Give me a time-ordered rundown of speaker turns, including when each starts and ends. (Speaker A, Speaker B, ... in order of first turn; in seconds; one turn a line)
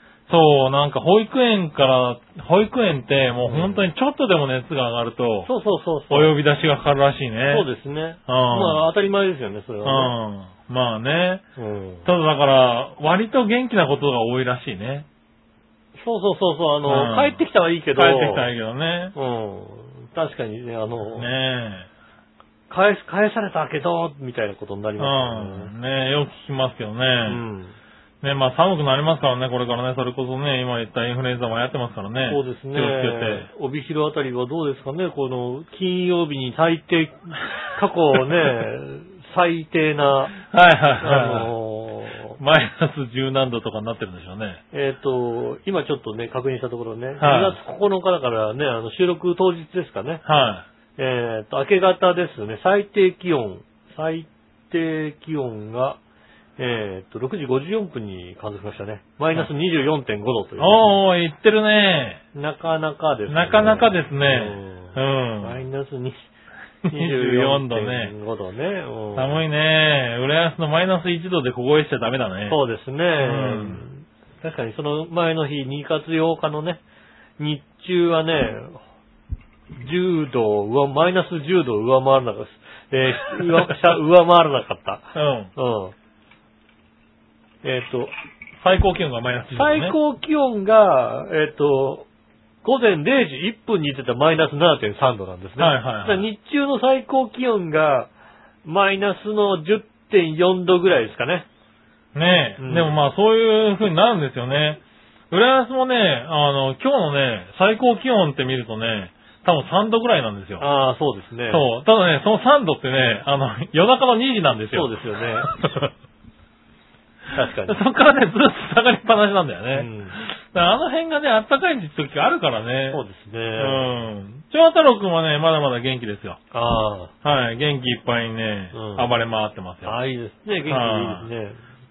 Speaker A: 0.3-5.5
Speaker B: 3.4-3.9
Speaker B: 5.5-6.3
Speaker A: 6.1-7.7
Speaker B: 7.5-10.1
Speaker A: 8.3-8.8
Speaker A: 9.8-11.4
Speaker B: 11.6-12.1
Speaker A: 12.1-15.1
Speaker B: 15.9-18.5
Speaker A: 16.9-17.4
Speaker A: 17.9-19.1
Speaker B: 19.1-21.3
Speaker A: 21.2-21.9
Speaker B: 22.7-25.7
Speaker A: 25.0-27.4
Speaker B: 27.3-27.8
Speaker A: 28.2-33.5
Speaker B: 32.3-40.4
Speaker A: 40.5-41.5
Speaker B: 41.0-42.4
Speaker A: 42.4-44.6
Speaker B: 44.7-50.2
Speaker A: 47.2-47.6
Speaker A: 50.2-50.7
Speaker B: 51.0-56.0
Speaker B: 56.6-61.0
Speaker A: 60.6-62.2
Speaker B: 62.4-66.3
Speaker A: 63.3-65.6
Speaker A: 66.9-68.1
Speaker B: 66.9-69.4
Speaker A: 69.2-72.6
Speaker B: 72.5-76.8
Speaker A: 73.2-73.8
Speaker B: 77.4-78.8
Speaker B: 79.8-86.0
Speaker A: 83.4-83.7
Speaker A: 85.2-85.5
Speaker B: 87.6-88.1
Speaker A: 88.6-90.0
Speaker B: 89.5-92.1
Speaker B: 92.6-98.1
Speaker A: 95.6-96.3
Speaker B: 98.7-101.5
Speaker A: 102.2-110.7
Speaker B: 102.6-103.0
Speaker B: 110.6-111.7
Speaker A: 111.5-114.9
Speaker B: 114.7-115.5
Speaker A: 115.4-115.9
Speaker B: 117.3-117.8
Speaker A: 117.7-123.0
Speaker B: 119.7-120.2
Speaker B: 122.9-123.9
Speaker A: 123.6-126.4
Speaker B: 126.5-127.1
Speaker A: 127.2-130.0
Speaker B: 128.7-129.1
Speaker B: 129.8-131.6
Speaker A: 130.7-131.3